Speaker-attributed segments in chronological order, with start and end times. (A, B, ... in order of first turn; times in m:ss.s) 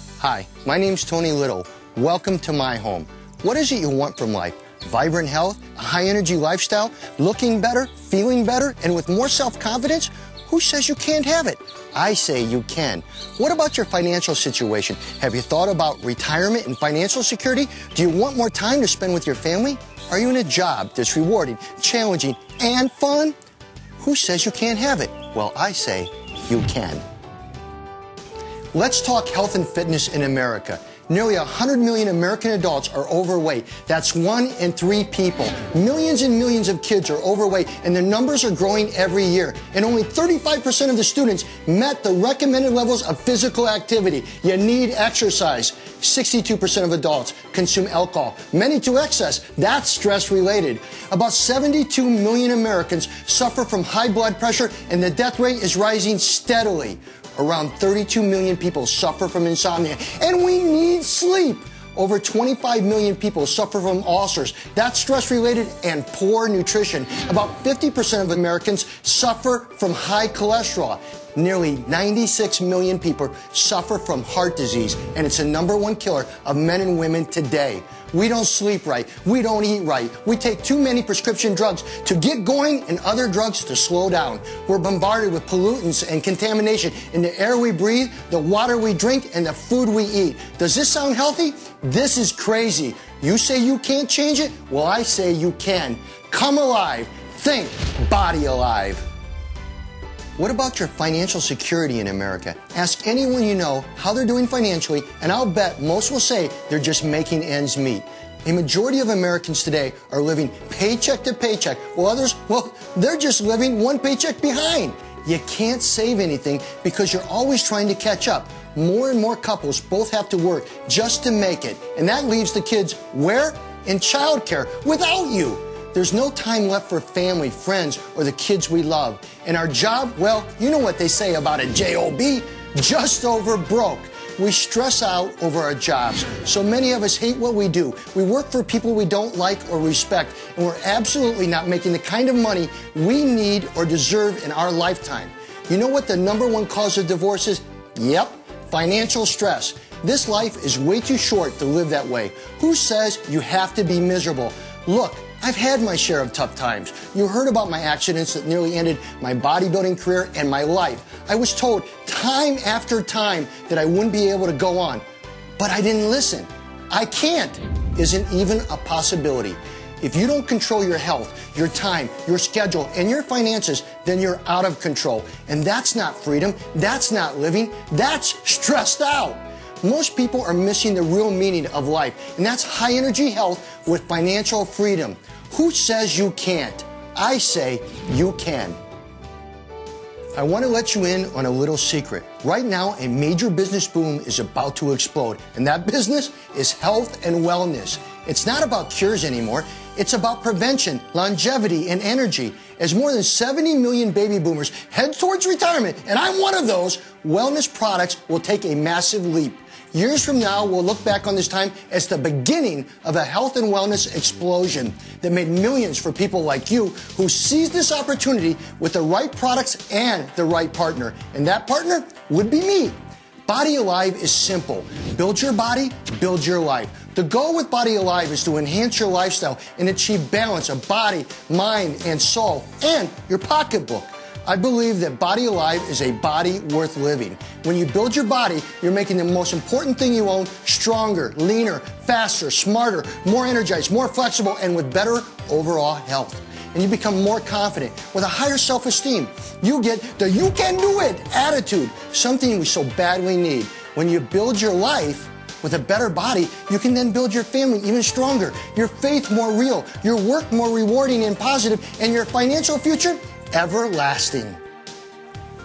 0:00.2-0:23.4 A
0:24.0-0:27.0 A
0:28.7-1:39.0 A
1:40.4-2:45.0 A
2:45.6-3:08.8 A
3:10.4-3:43.0 A
3:43.5-4:24.6 A